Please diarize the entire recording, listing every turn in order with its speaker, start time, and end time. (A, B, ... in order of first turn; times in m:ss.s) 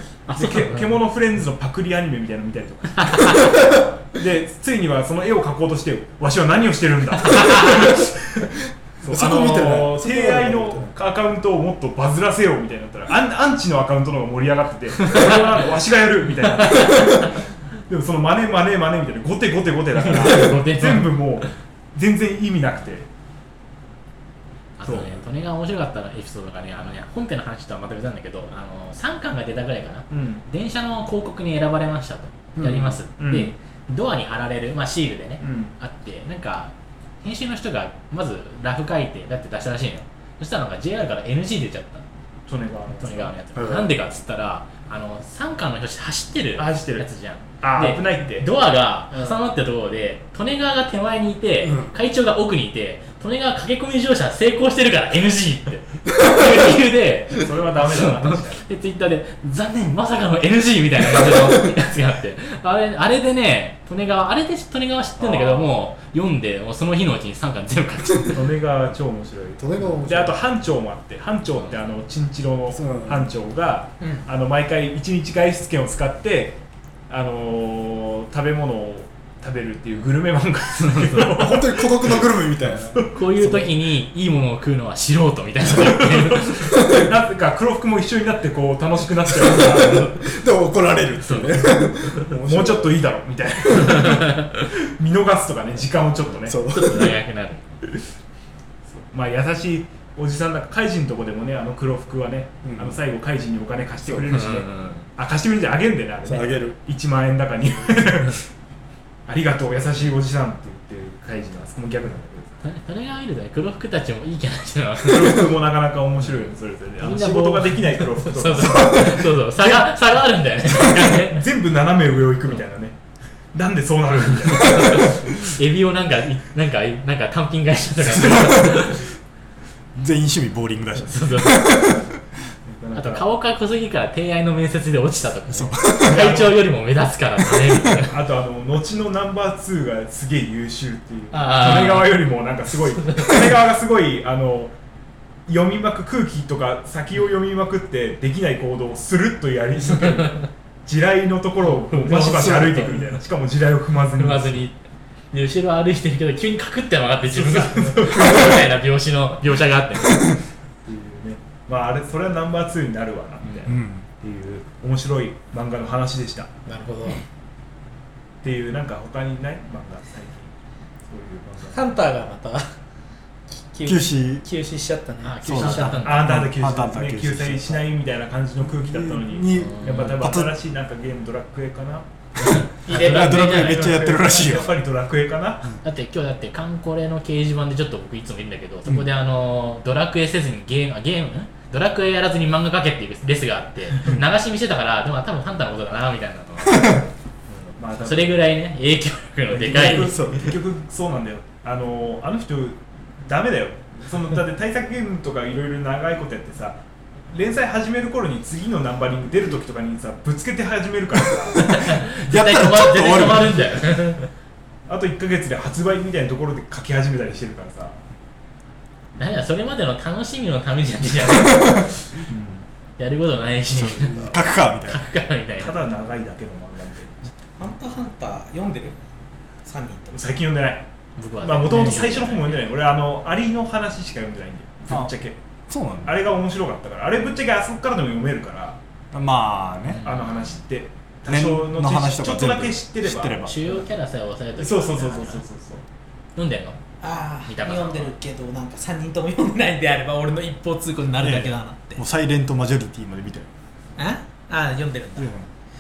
0:00.3-0:01.0 A
0:00.3-0:08.0 B
0:03.1-0:03.4 A
0:07.4-0:07.8 A
0:09.0-0:23.1 B
0:09.0-0:10.9 C
0:15.1-0:15.6 A
0:16.6-0:17.3 A
0:20.0-0:21.5 A
0:24.8-0:42.0 A
0:24.8-0:25.2 B
0:30.1-0:30.4 B
0:32.6-0:33.5 B
0:35.4-0:35.7 B
0:42.5-0:43.3 B
0:43.0-1:08.5 A
0:43.6-0:43.9 C
0:46.6-0:47.1 B
0:47.6-0:48.5 B
0:51.6-0:51.9 C
0:57.3-0:58.7 B
1:05.2-1:05.8 B
1:08.3-1:22.2 B
1:09.6-1:10.4 C
1:12.7-1:13.3 C
1:14.0-1:14.3 D
1:21.3-1:23.8 C
1:23.0-1:26.9 A
1:25.9-1:30.2 B
1:26.6-1:27.0 C
1:29.4-1:33.0 C
1:31.2-1:32.2 A
1:32.4-1:36.6 B
1:33.7-1:34.6 A
1:36.5-1:37.2 C
1:36.6-1:37.6 A
1:38.9-1:48.4 B
1:42.6-1:43.0 C
1:44.2-1:45.1 A
1:46.2-1:46.8 C
1:49.3-1:52.6 B
1:52.6-1:55.5 A
1:55.0-1:59.9 B
1:56.2-2:01.5 A
1:58.6-1:59.2 C
2:01.0-2:03.0 B
2:03.5-2:05.2 B
2:04.4-2:09.0 A
2:08.0-2:09.1 C
2:10.0-2:12.2 C
2:11.1-2:11.9 A
2:12.7-2:13.3 B
2:13.0-2:18.2 A
2:15.5-2:16.3 C
2:16.0-2:16.6 B
2:17.5-2:18.0 C
2:18.1-2:24.8 B
2:21.3-2:22.2 A
2:25.5-2:34.6 B
2:31.7-2:33.1 A
2:32.2-2:32.9 C
2:34.2-2:34.8 A
2:35.3-2:40.4 A
2:37.3-2:38.7 B
2:40.8-2:46.5 B
2:43.7-2:44.1 C
2:46.7-2:47.2 D
2:48.4-2:50.5 B
2:51.1-2:51.8 B
2:51.7-2:52.7 D
2:53.7-2:56.0 D
2:53.8-2:54.5 C
2:55.2-2:56.3 A
2:55.4-2:57.9 C
2:56.0-3:02.6 B
2:58.6-3:00.5 C
2:59.6-3:00.1 A
3:02.4-3:04.0 A
3:02.9-3:03.9 D
3:02.9-3:04.8 C
3:03.4-3:05.8 B
3:05.8-3:17.1 A
3:16.7-3:17.0 C
3:17.7-3:20.2 A
3:17.8-3:18.5 B
3:19.5-3:31.7 B
3:19.8-3:20.6 C
3:31.5-3:33.8 C
3:31.7-3:34.3 A
3:34.9-3:38.0 B
3:39.2-3:42.1 A
3:41.4-3:41.9 C
3:42.3-3:42.7 B
3:43.0-3:45.8 A
3:43.7-3:45.0 C
3:44.0-3:44.4 B
3:45.6-3:47.3 B
3:47.6-3:49.0 D
3:49.6-3:50.3 D
3:50.1-3:50.9 B
3:51.2-3:52.6 A
3:51.4-3:55.4 B
3:55.7-3:56.2 C
3:56.0-3:58.8 B
3:59.1-4:00.0 C
3:59.9-4:00.6 A
4:00.0-4:03.9 B
4:01.3-4:03.5 C
4:03.5-4:05.4 A
4:04.6-4:05.8 B
4:06.4-4:06.8 A
4:07.0-4:12.0 D
4:07.4-4:08.1 A
4:11.2-4:13.5 C
4:14.0-4:15.3 D
4:15.2-4:15.5 C